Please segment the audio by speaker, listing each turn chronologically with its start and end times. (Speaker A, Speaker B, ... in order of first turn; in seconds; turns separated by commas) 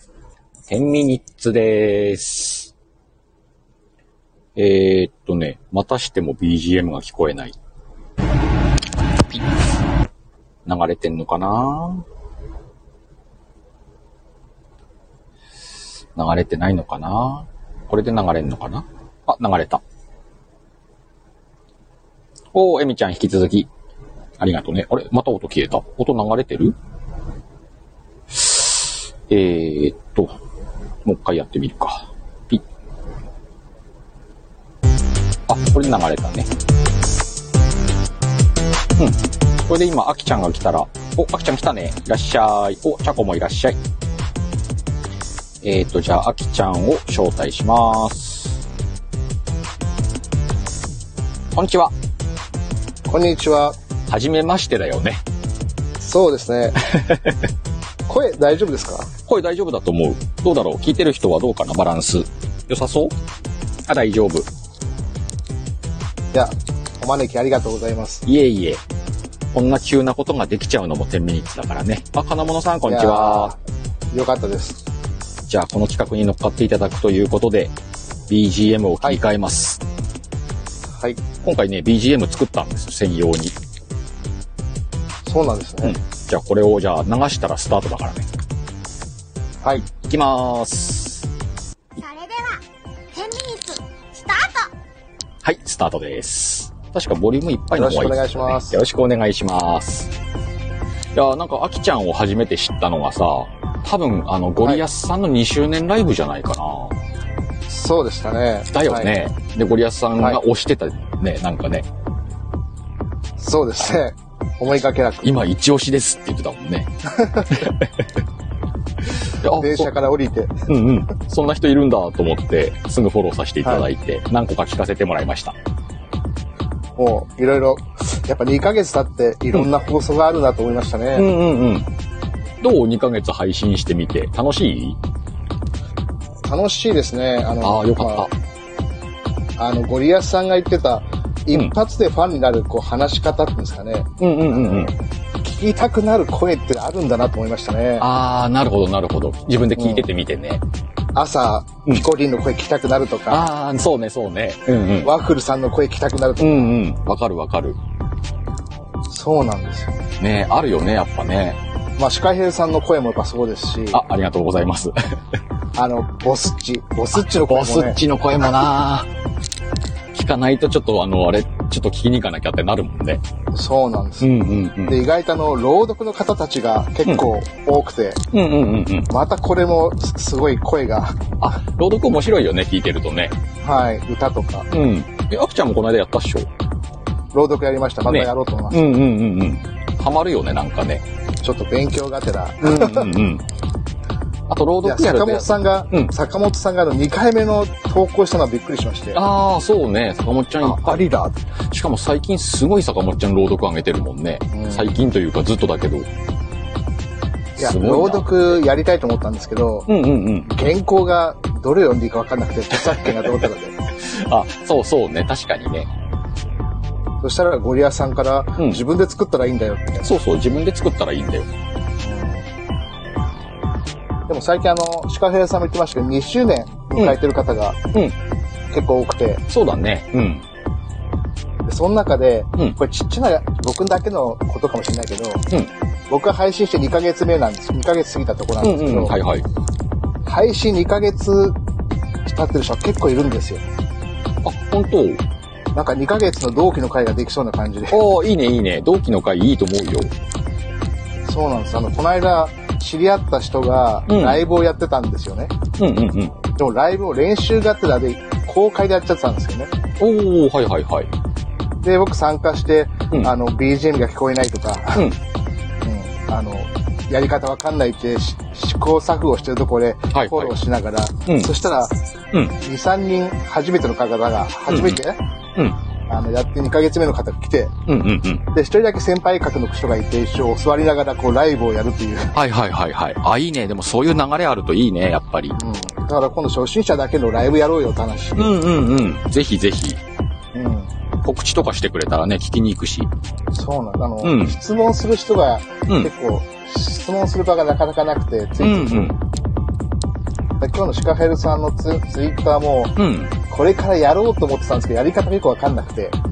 Speaker A: 0.7-2.7, Speaker A: 4.6-7.6, Speaker A: 10.7-12.1, Speaker A: 16.1-19.8, Speaker A: 22.5-23.7, Speaker A: 24.4-26.8, Speaker A: 28.3-30.4, Speaker A: 31.1-32.6, Speaker A: 35.5-36.5, Speaker A: 39.0-43.8, Speaker A: 45.6-48.6, Speaker A: 51.5-51.9, Speaker B: 53.1-53.8, Speaker A: 54.1-55.2, Speaker B: 56.0-56.8, Speaker A: 56.9-57.4, Speaker B: 58.1-59.1, Speaker A: 59.3-63.1, Speaker A: 63.9-64.5, Speaker B: 66.3-68.2, Speaker A: 68.3-68.8, Speaker A: 69.5-73.6, Speaker B: 72.9-73.6, Speaker B: 74.1-74.8, Speaker A: 75.5-77.7, Speaker A: 78.3-79.8, Speaker A: 81.4-83.5, Speaker B: 85.2-86.0, Speaker A: 85.8-88.3, Speaker B: 89.6-89.9, Speaker A: 89.9-91.3, Speaker C: 92.0-94.7, Speaker A: 95.4-100.1, Speaker B: 97.7-98.8, Speaker A: 101.1-107.0, Speaker B: 107.7-109.1, Speaker A: 108.7-111.9, Speaker B: 113.4-115.5, Speaker A: 115.2-116.9, Speaker B: 117.1-117.7, Speaker A: 117.5-117.9, Speaker A: 119.4-119.9, Speaker B: 119.5-120.7, Speaker A: 120.7-125.5, Speaker B: 127.0-131.3, Speaker A: 131.2-131.9, Speaker A: 132.6-135.0, Speaker B: 136.4-138.3, Speaker A: 137.6-138.3, Speaker B: 139.6-148.1, Speaker A: 144.2-144.9, Speaker A: 148.0-150.6, Speaker B: 149.8-150.1, Speaker B: 151.2-153.5, Speaker A: 153.3-155.1, Speaker B: 155.0-156.8, Speaker A: 156.4-157.8, Speaker B: 159.1-160.0, Speaker A: 160.2-161.6, Speaker B: 162.0-164.0, Speaker A: 163.9-164.9, Speaker B: 165.8-168.0, Speaker A: 167.2-169.1, Speaker A: 170.1-173.2, Speaker B: 173.5-174.3, Speaker A: 174.2-175.0, Speaker B: 174.9-178.2, Speaker A: 178.3-179.1, Speaker B: 179.1-181.2, Speaker A: 181.4-183.3, Speaker B: 183.6-184.7, Speaker A: 184.7-186.5, Speaker B: 187.3-188.9, Speaker A: 188.1-191.0, Speaker B: 191.4-193.1, Speaker A: 192.6-193.4, Speaker A: 194.5-196.1, Speaker B: 194.8-199.2, Speaker A: 199.1-201.1, Speaker B: 200.6-201.4, Speaker A: 201.7-206.1, Speaker B: 204.5-204.9, Speaker A: 207.6-208.6, Speaker B: 207.6-209.9, Speaker A: 209.9-210.5, Speaker B: 210.5-213.8, Speaker A: 213.0-213.3, Speaker A: 214.0-215.9, Speaker B: 217.2-220.2, Speaker A: 220.0-221.5, Speaker B: 222.0-222.5, Speaker B: 224.3-227.8, Speaker B: 228.7-229.4, Speaker A: 229.5-230.5, Speaker B: 231.7-235.4, Speaker B: 236.1-239.2, Speaker A: 238.6-239.5, Speaker B: 240.2-241.6, Speaker B: 242.3-243.6, Speaker A: 244.4-245.2, Speaker B: 245.7-248.0, Speaker A: 247.9-250.1, Speaker B: 251.3-255.5, Speaker A: 254.1-254.4, Speaker A: 255.8-256.4, Speaker B: 256.6-259.7, Speaker A: 260.0-261.1, Speaker B: 261.8-265.1, Speaker B: 265.8-271.9, Speaker A: 270.1-270.5, Speaker B: 272.6-275.2, Speaker A: 274.7-275.0, Speaker B: 276.1-277.7, Speaker A: 277.9-278.4, Speaker B: 278.5-282.3, Speaker A: 282.3-285.6, Speaker B: 285.6-288.6, Speaker A: 288.4-290.0, Speaker B: 290.5-290.9, Speaker A: 291.2-293.1, Speaker B: 293.5-299.1, Speaker A: 294.2-294.6, Speaker A: 298.6-299.2, Speaker B: 300.6-303.0, Speaker A: 303.0-303.3, Speaker B: 303.5-306.1